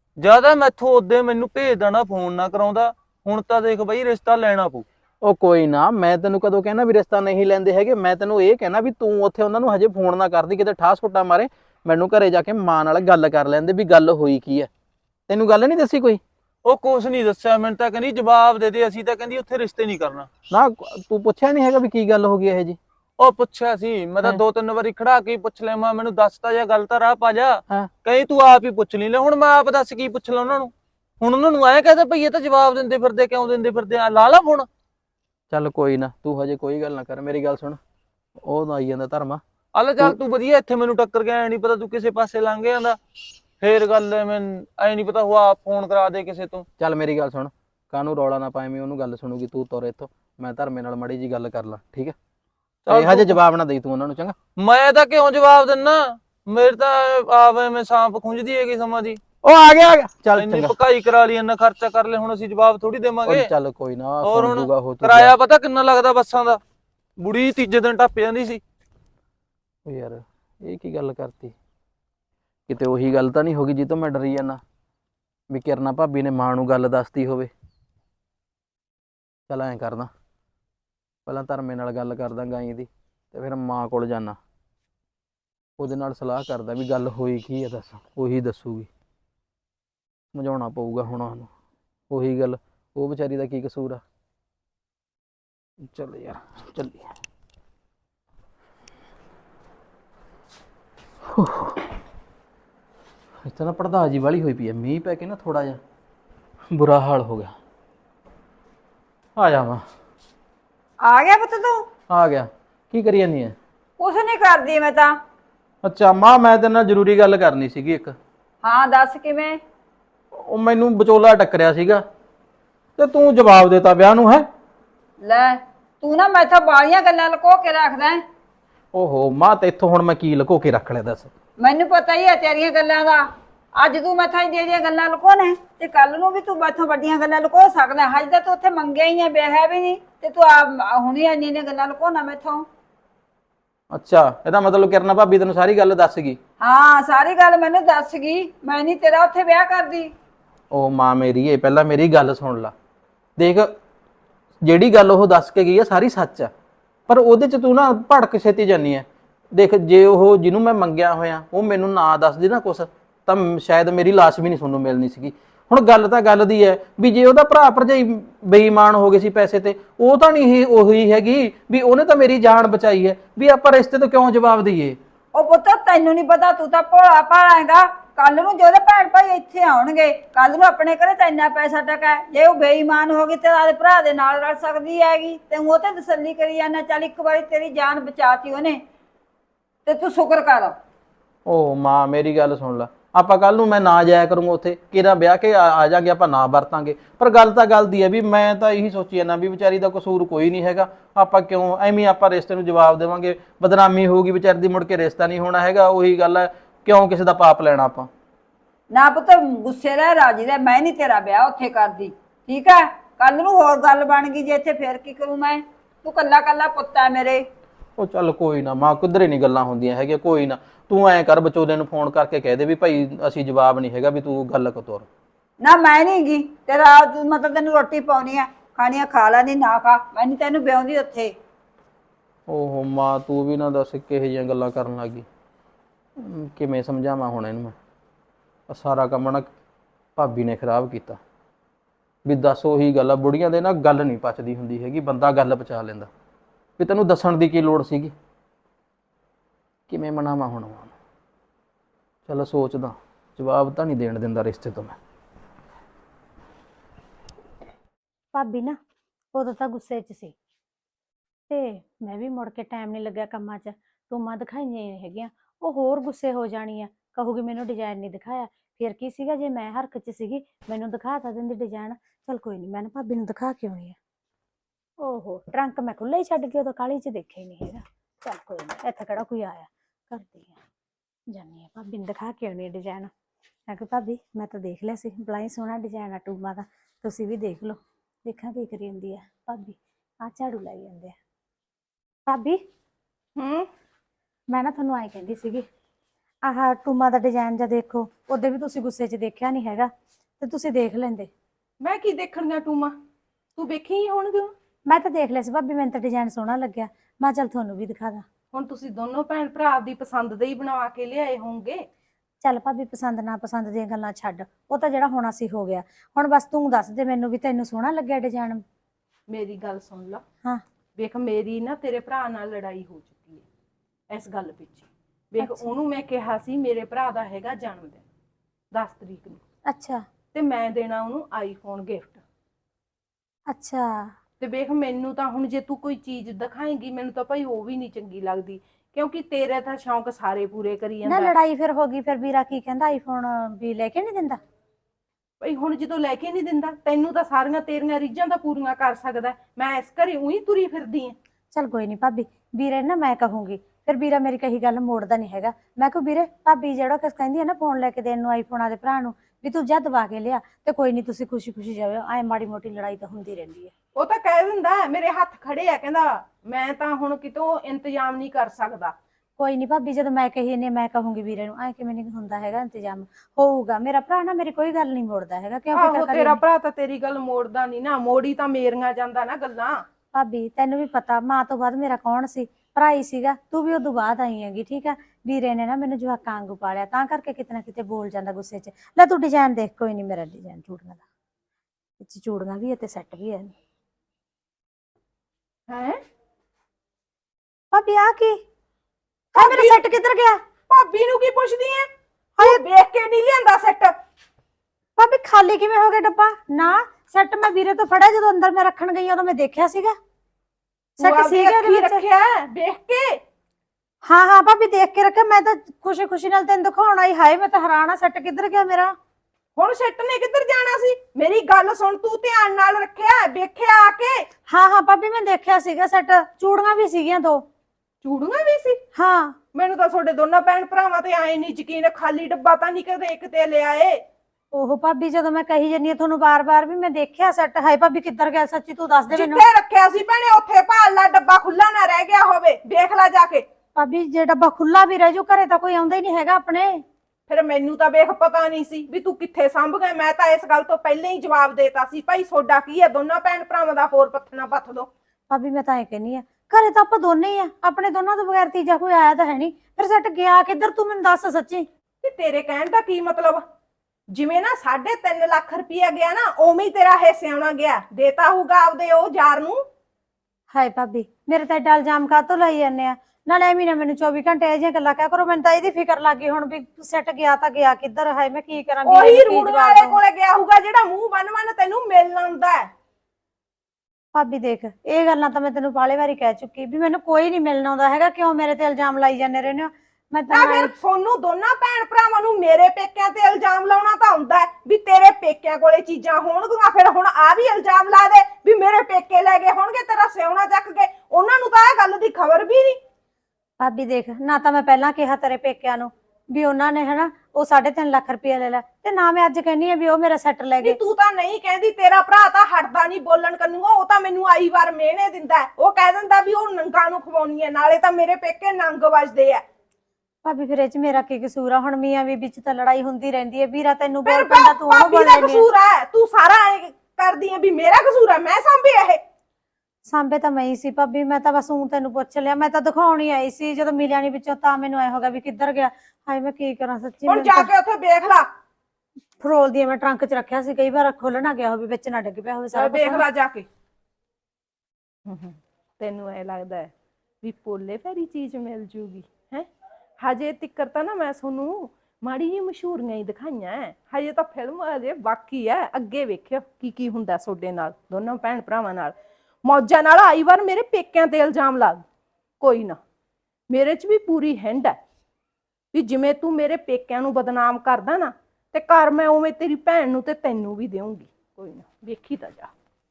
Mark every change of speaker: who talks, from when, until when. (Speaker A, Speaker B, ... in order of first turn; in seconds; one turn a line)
Speaker A: 0.2-4.8
Speaker B: 5.2-14.7
Speaker B: 15.3-16.2
Speaker A: 16.6-20.3
Speaker B: 20.5-22.8
Speaker A: 23.2-34.6
Speaker B: 35.5-37.8
Speaker B: 38.4-39.4
Speaker A: 39.8-43.0
Speaker A: 43.6-46.6
Speaker B: 46.8-52.1
Speaker A: 52.9-53.3
Speaker B: 52.9-54.4
Speaker A: 54.6-59.2
Speaker B: 59.4-60.7
Speaker A: 60.4-63.5
Speaker B: 63.2-65.3
Speaker A: 64.2-66.6
Speaker A: 67.2-68.6
Speaker B: 69.9-71.5
Speaker B: 72.7-74.6
Speaker B: 75.5-77.5
Speaker B: 79.5-80.1
Speaker B: 81.3-84.4
Speaker B: 85.8-88.9
Speaker B: 90.3-91.5
Speaker B: 92.1-94.0
Speaker B: 95.8-97.1
Speaker B: 101.3-101.9
Speaker B: 103.4-105.8
Speaker B: 106.7-107.5
Speaker B: 109.4-109.8
Speaker C: 111.0-111.8
Speaker B: 112.1-113.6
Speaker C: 114.0-115.1
Speaker B: 115.8-118.2
Speaker C: 118.6-119.6
Speaker B: 120.3-122.0
Speaker B: 123.0-124.5
Speaker C: 125.2-128.2
Speaker B: 128.9-131.3
Speaker C: 131.6-133.3
Speaker C: 133.8-142.7
Speaker B: 143.9-146.4
Speaker C: 146.6-150.1
Speaker B: 150.7-152.7
Speaker B: 153.4-153.7
Speaker B: 154.6-156.5
Speaker B: 157.1-175.0
Speaker C: 175.3-188.8
Speaker C: 189.9-190.8
Speaker B: 191.4-208.1
Speaker C: 208.9-217.4
Speaker B: 218.0-225.1
Speaker C: 225.6-231.3
Speaker B: 232.5-235.3
Speaker B: 236.2-237.8
Speaker B: 238.7-239.5
Speaker B: 240.2-241.2
Speaker B: 242.2-246.1
Speaker B: 246.8-248.1
Speaker B: 249.9-250.9
Speaker B: 252.3-254.9
Speaker D: 258.3-258.8
Speaker D: 259.3-260.3
Speaker D: 261.5-273.9
Speaker D: 275.0-280.6
Speaker D: 281.3-283.1
Speaker D: 283.7-291.1
Speaker D: 292.3-292.6
Speaker E: 293.4-293.7
Speaker D: 294.5-295.6
Speaker D: 296.4-301.3
Speaker E: 301.8-302.9
Speaker E: 303.6-304.5
Speaker D: 304.9-308.2
Speaker E: 308.5-311.9
Speaker D: 312.4-318.6
Speaker E: 319.3-320.2
Speaker E: 321.0-323.4
Speaker E: 324.1-328.0
Speaker D: 325.4-325.7
Speaker E: 328.7-329.4
Speaker D: 329.6-330.1
Speaker E: 330.3-332.2
Speaker D: 333.5-334.1
Speaker E: 334.4-341.3
Speaker D: 341.0-344.4
Speaker E: 345.4-351.1
Speaker D: 351.5-363.7
Speaker E: 363.9-368.9
Speaker D: 369.4-376.4
Speaker E: 375.8-379.8
Speaker D: 380.1-391.0
Speaker D: 392.0-393.5
Speaker E: 395.7-396.0
Speaker D: 397.7-398.4
Speaker D: 399.4-400.4
Speaker E: 399.4-399.8
Speaker E: 400.7-401.9
Speaker E: 402.4-403.9
Speaker D: 405.0-409.9
Speaker E: 411.0-413.2
Speaker D: 411.0-412.1
Speaker D: 414.1-418.9
Speaker E: 419.6-424.3
Speaker D: 424.5-427.4
Speaker E: 428.0-428.8
Speaker D: 428.9-429.4
Speaker E: 429.5-434.0
Speaker D: 434.5-439.4
Speaker E: 439.1-443.4
Speaker D: 443.8-446.8
Speaker E: 447.3-454.9
Speaker D: 455.3-461.7
Speaker E: 462.0-463.4
Speaker E: 464.1-469.6
Speaker D: 470.5-480.0
Speaker E: 478.9-482.7
Speaker D: 484.1-490.7
Speaker E: 490.3-502.8
Speaker D: 503.6-510.8
Speaker E: 510.6-519.4
Speaker D: 520.2-525.5
Speaker E: 524.1-529.0
Speaker D: 529.9-537.5
Speaker E: 537.1-538.3
Speaker D: 539.2-543.0
Speaker E: 542.5-543.5
Speaker E: 545.1-546.7
Speaker E: 547.2-549.5
Speaker E: 550.0-561.8
Speaker E: 562.4-562.8
Speaker E: 563.5-564.8
Speaker E: 565.7-572.5